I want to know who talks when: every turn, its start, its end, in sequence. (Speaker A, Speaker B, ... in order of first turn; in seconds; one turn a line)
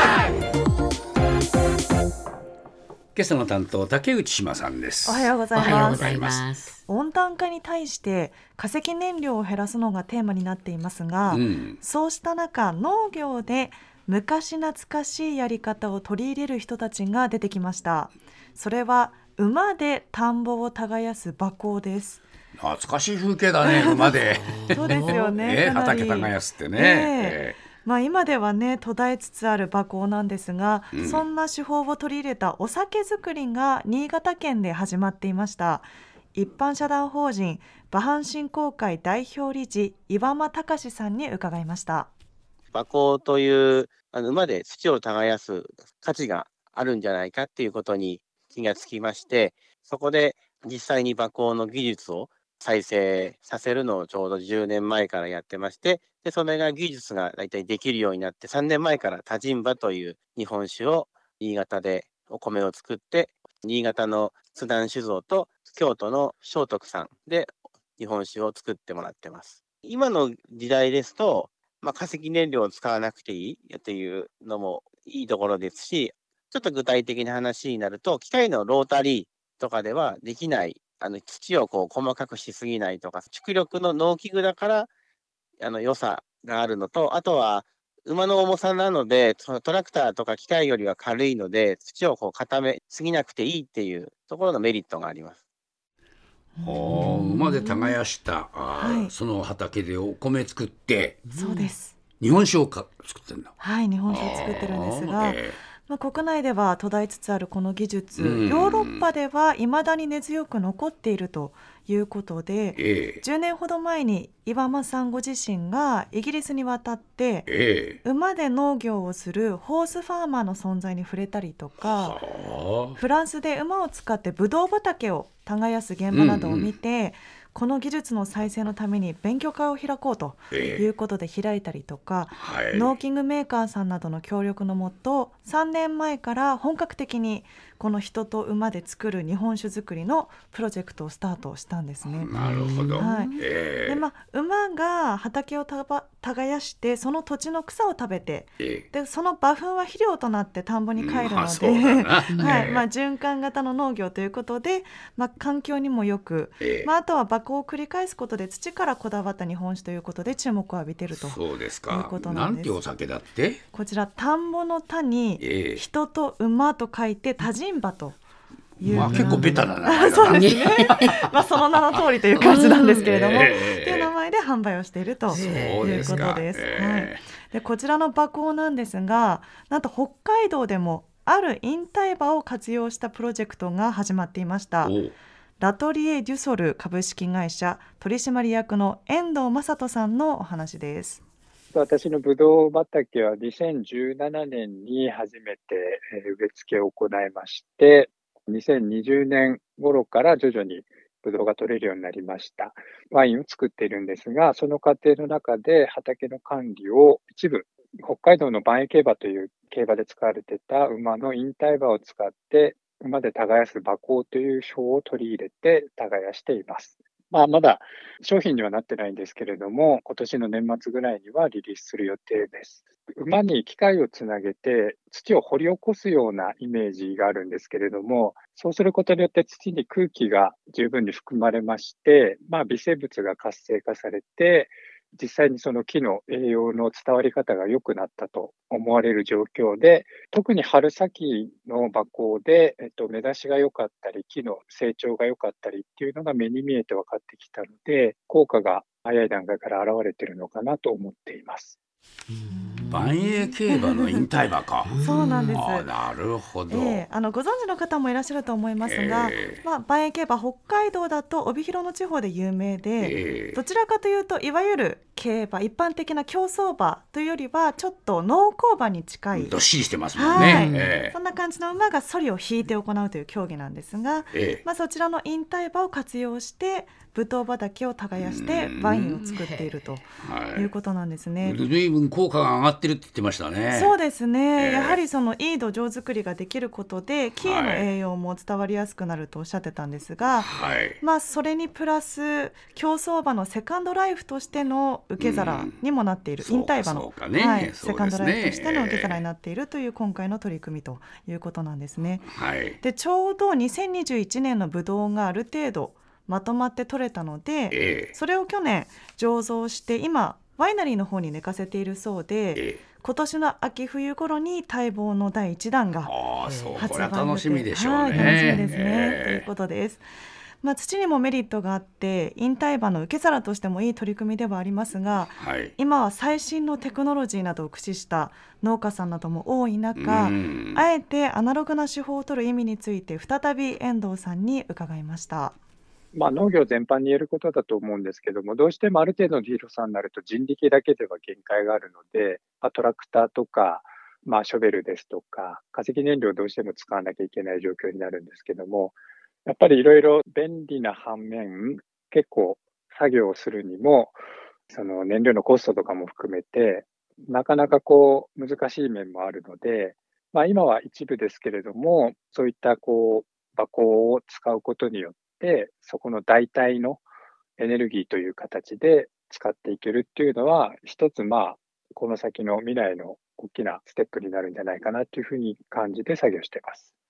Speaker A: 3.1-6.5
Speaker B: 5.0-6.1
Speaker C: 5.5-6.8
Speaker B: 6.9-22.2
Speaker A: 11.3-11.8
Speaker A: 22.6-27.6
Speaker B: 23.6-42.1
Speaker A: 30.9-31.2
Speaker D: 42.7-84.9
Speaker D: 85.6-95.4
Speaker B: 96.6-97.9
Speaker A: 96.6-101.2
Speaker B: 98.8-99.1
Speaker C: 101.3-101.7
Speaker B: 101.3-102.0
Speaker A: 102.2-103.5
Speaker B: 103.6-117.5
Speaker A: 104.1-105.6
Speaker A: 108.2-109.0
Speaker A: 112.8-113.2
Speaker A: 117.5-118.0
Speaker B: 118.0-122.2
Speaker A: 121.8-123.0
Speaker B: 122.9-142.3
Speaker A: 126.1-126.7
Speaker A: 130.5-130.8
Speaker A: 132.3-132.9
Speaker A: 142.2-144.0
Speaker C: 142.3-143.3
Speaker B: 142.9-162.8
Speaker A: 148.6-148.8
Speaker A: 150.9-152.8
Speaker C: 152.3-152.7
Speaker A: 156.6-156.9
Speaker A: 161.1-163.6
Speaker B: 163.7-168.2
Speaker A: 165.4-165.8
Speaker A: 168.8-174.1
Speaker B: 168.8-185.0
Speaker C: 169.0-169.7
Speaker C: 170.3-171.2
Speaker C: 172.4-173.0
Speaker C: 175.3-176.2
Speaker A: 175.3-177.2
Speaker A: 184.8-185.1
Speaker B: 185.6-191.2
Speaker E: 191.7-251.8
Speaker C: 252.3-253.1
Speaker B: 252.5-254.2
Speaker A: 252.9-257.1
Speaker C: 254.9-255.6
Speaker B: 255.0-255.9
Speaker B: 256.7-269.6
Speaker A: 258.8-259.6
Speaker A: 263.0-263.6
Speaker A: 269.3-271.1
Speaker B: 270.1-281.6
Speaker C: 270.4-270.9
Speaker A: 274.3-274.6
Speaker A: 278.1-279.2
Speaker C: 279.2-279.7
Speaker A: 280.2-280.7
Speaker A: 281.4-283.9
Speaker B: 283.7-302.3
Speaker A: 284.6-285.0
Speaker A: 287.4-287.9
Speaker A: 290.4-291.0
Speaker A: 295.2-295.8
Speaker A: 296.4-299.2
Speaker A: 302.2-302.8
Speaker B: 302.8-316.1
Speaker A: 307.7-308.1
Speaker A: 312.6-312.8
Speaker A: 316.0-319.5
Speaker C: 316.4-317.0
Speaker B: 316.8-320.1
Speaker C: 318.1-318.7
Speaker B: 320.6-335.6
Speaker A: 325.4-325.7
Speaker A: 329.9-330.8
Speaker E: 336.1-367.0
Speaker E: 367.6-376.9